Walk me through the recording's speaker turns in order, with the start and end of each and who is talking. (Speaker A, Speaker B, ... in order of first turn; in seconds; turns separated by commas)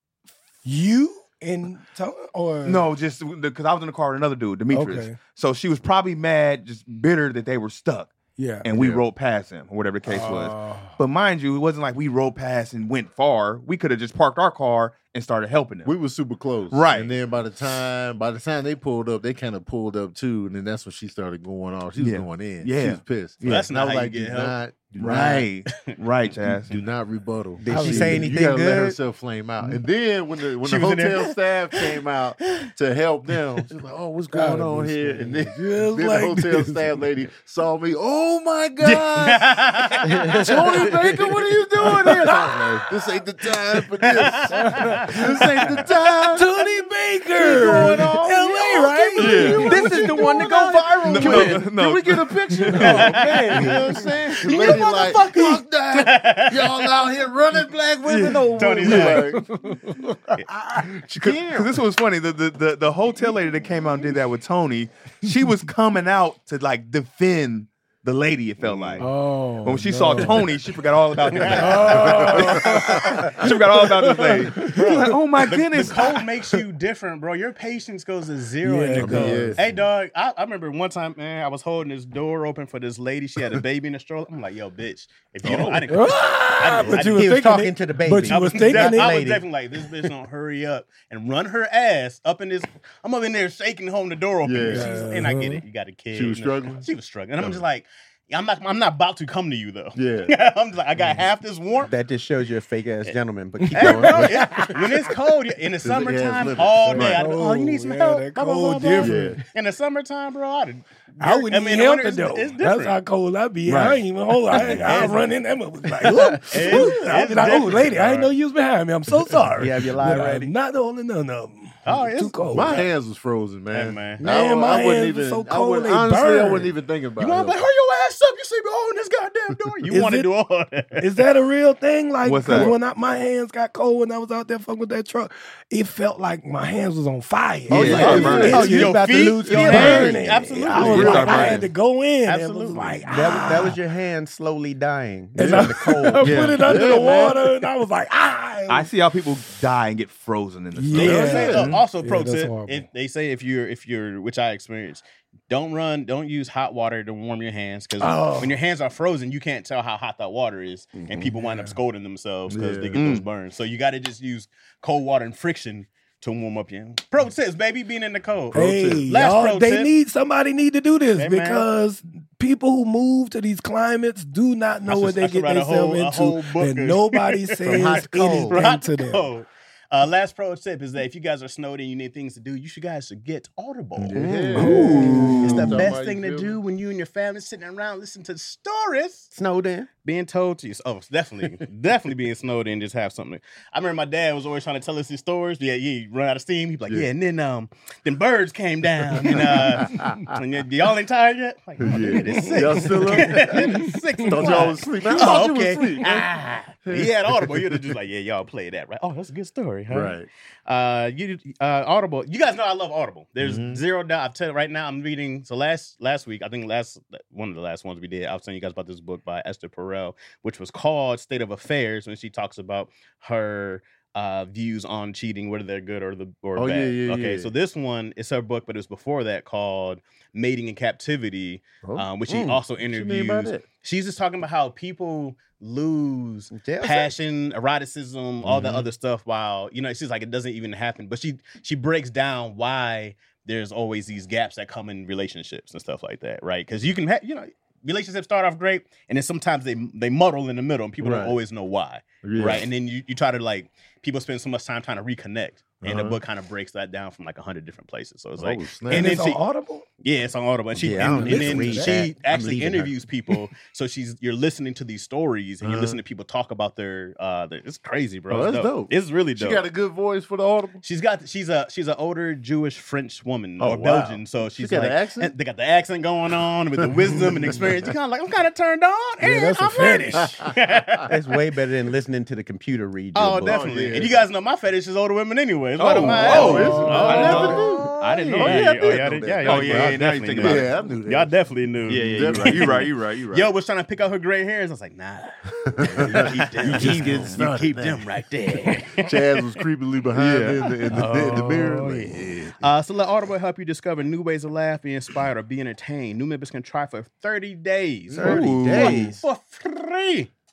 Speaker A: 0.7-2.9, Speaker B: 2.6-15.9, Speaker A: 4.7-5.2, Speaker A: 8.4-8.7, Speaker C: 8.7-9.1, Speaker A: 10.1-11.0, Speaker C: 15.8-25.5, Speaker B: 16.7-17.1, Speaker B: 22.0-23.7, Speaker D: 23.4-24.6, Speaker B: 25.0-26.8, Speaker D: 25.7-25.9, Speaker C: 26.7-39.6, Speaker E: 27.6-29.0, Speaker A: 27.7-28.3, Speaker D: 30.6-31.9, Speaker A: 34.3-37.0, Speaker D: 38.9-40.3, Speaker E: 40.1-41.0, Speaker C: 40.3-46.5, Speaker A: 41.9-42.9, Speaker D: 44.2-44.9, Speaker A: 44.5-45.5, Speaker A: 46.3-50.5, Speaker C: 47.4-59.5, Speaker B: 49.2-50.0, Speaker E: 49.6-51.7, Speaker B: 51.0-53.0, Speaker A: 52.8-53.0, Speaker D: 52.8-53.8, Speaker E: 53.1-53.7, Speaker D: 54.4-56.9, Speaker B: 58.1-59.2, Speaker D: 58.6-59.3, Speaker A: 59.0-61.0, Speaker C: 61.0-61.7, Speaker B: 61.2-69.1, Speaker D: 68.6-69.1, Speaker A: 69.0-70.5, Speaker B: 69.6-76.2, Speaker D: 71.3-72.3, Speaker A: 71.5-75.2, Speaker C: 71.5-72.6, Speaker D: 74.6-87.4, Speaker A: 78.6-79.6, Speaker C: 79.0-79.8, Speaker C: 85.4-85.9, Speaker A: 85.9-89.2, Speaker E: 87.1-89.5, Speaker D: 88.3-101.9, Speaker C: 94.4-94.9, Speaker A: 94.7-95.6, Speaker C: 96.1-96.9, Speaker C: 100.0-100.3, Speaker E: 101.8-104.7, Speaker A: 103.7-105.1, Speaker D: 103.7-113.0, Speaker C: 104.1-104.4, Speaker C: 105.8-107.2, Speaker B: 106.9-107.2, Speaker A: 107.1-109.4, Speaker C: 109.0-109.4, Speaker A: 111.2-122.8, Speaker B: 113.7-114.0, Speaker D: 114.5-115.2, Speaker D: 116.0-118.3, Speaker E: 119.6-120.5, Speaker D: 121.9-122.9, Speaker C: 122.5-127.6, Speaker D: 123.7-124.2, Speaker A: 124.2-126.7, Speaker D: 127.2-131.1, Speaker A: 129.9-130.3, Speaker A: 131.0-143.8, Speaker B: 132.2-132.7, Speaker C: 137.7-138.7, Speaker B: 137.7-138.8, Speaker E: 137.8-140.3, Speaker D: 137.9-141.7, Speaker B: 139.8-140.0, Speaker B: 140.8-141.7, Speaker E: 140.8-141.4, Speaker C: 140.9-141.6, Speaker D: 142.2-143.1, Speaker E: 143.1-146.4, Speaker A: 145.3-148.9, Speaker C: 145.4-145.8, Speaker B: 146.2-146.7, Speaker C: 146.3-147.5, Speaker B: 148.7-151.8, Speaker A: 150.8-152.9, Speaker C: 150.9-151.7, Speaker D: 151.0-169.9, Speaker A: 158.0-158.6, Speaker E: 161.0-161.3, Speaker A: 161.4-161.8, Speaker C: 162.5-163.2, Speaker B: 162.9-163.3, Speaker C: 168.5-169.1, Speaker A: 168.5-179.3, Speaker D: 171.2-171.7, Speaker D: 174.9-184.3, Speaker E: 177.6-178.6, Speaker C: 184.0-186.6, Speaker E: 184.1-186.0, Speaker B: 184.6-185.8, Speaker A: 184.6-185.5, Speaker D: 185.4-189.3, Speaker E: 189.3-189.9, Speaker D: 190.0-259.4, Speaker C: 199.2-200.3, Speaker C: 201.8-206.3, Speaker A: 202.1-204.7, Speaker C: 206.8-207.9, Speaker C: 209.9-210.3, Speaker C: 213.4-213.8, Speaker C: 226.6-227.5, Speaker C: 231.8-232.1, Speaker E: 232.3-232.6, Speaker C: 232.8-233.6, Speaker E: 236.5-237.1, Speaker C: 238.4-238.9, Speaker C: 251.0-251.4, Speaker C: 252.2-252.7, Speaker C: 255.8-256.2, Speaker C: 258.4-259.1, Speaker A: 258.9-259.9, Speaker D: 260.0-269.6, Speaker E: 260.8-262.9, Speaker A: 261.1-262.1, Speaker C: 265.6-266.0, Speaker C: 268.3-270.8, Speaker D: 270.8-281.1, Speaker C: 273.6-275.3, Speaker C: 277.1-277.8, Speaker A: 279.2-280.4, Speaker E: 281.1-283.6, Speaker D: 283.1-299.6, Speaker C: 283.3-284.2, Speaker B: 285.8-287.6, Speaker C: 286.0-291.3, Speaker A: 286.3-287.6, Speaker B: 289.4-290.7, Speaker B: 291.9-293.5, Speaker C: 292.0-292.9, Speaker C: 295.6-298.1, Speaker B: 296.5-297.4, Speaker C: 298.9-302.6, Speaker B: 300.2-301.4, Speaker D: 300.9-310.3, Speaker E: 308.1-309.2, Speaker B: 308.2-309.1